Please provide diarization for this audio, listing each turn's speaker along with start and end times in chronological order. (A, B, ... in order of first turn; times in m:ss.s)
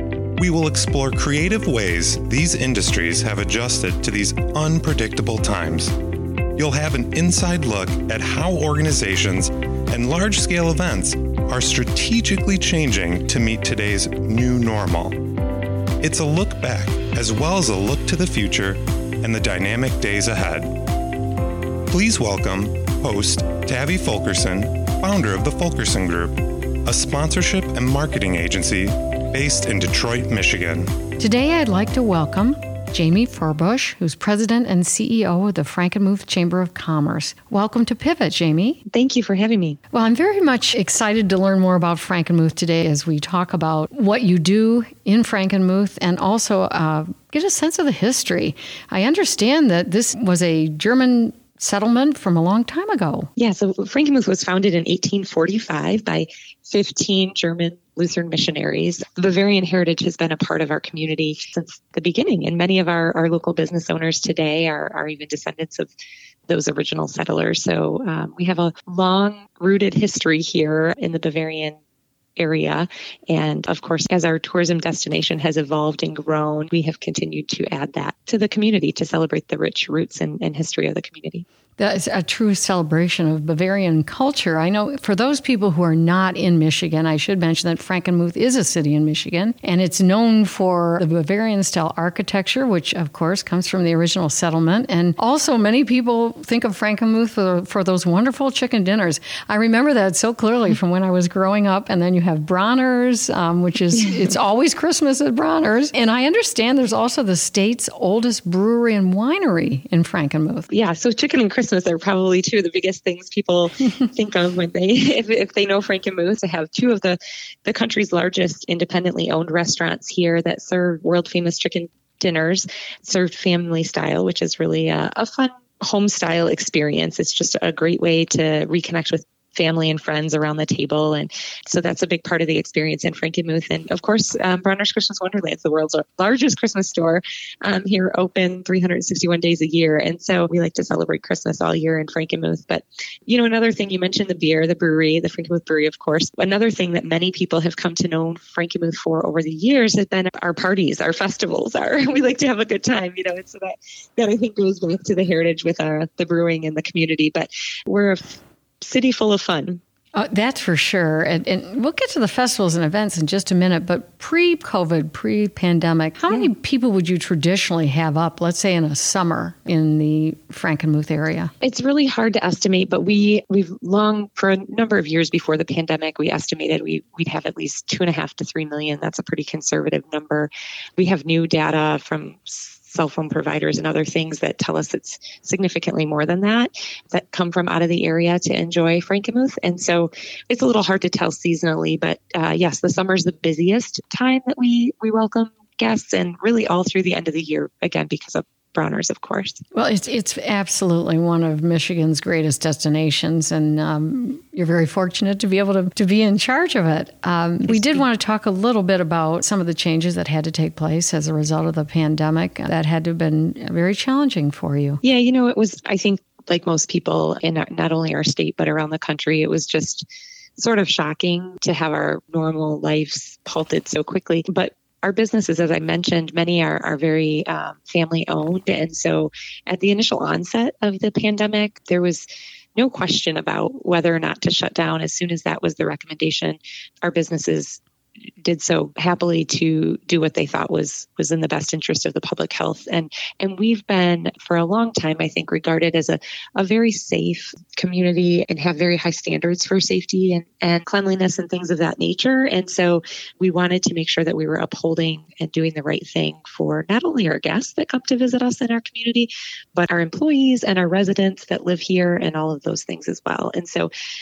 0:00.4-0:05.9 A
0:06.6-0:15.2 A
0:16.0-0:20.7 A
0:21.9-0:30.9 A
0:31.2-0:38.8 B
0:38.9-0:39.8 C
0:39.9-0:53.3 B
0:53.4-1:05.9 C
1:06.5-1:11.8 C
1:12.4-1:21.4 C
1:21.8-1:50.7 B
1:50.7-2:39.8 C
2:40.1-2:51.5 B
2:51.6-3:19.6 C
3:19.7-3:35.0 B
3:27.7-3:28.0 C
3:35.0-3:40.1 C
3:40.6-3:57.8 C
3:58.4-4:23.9 C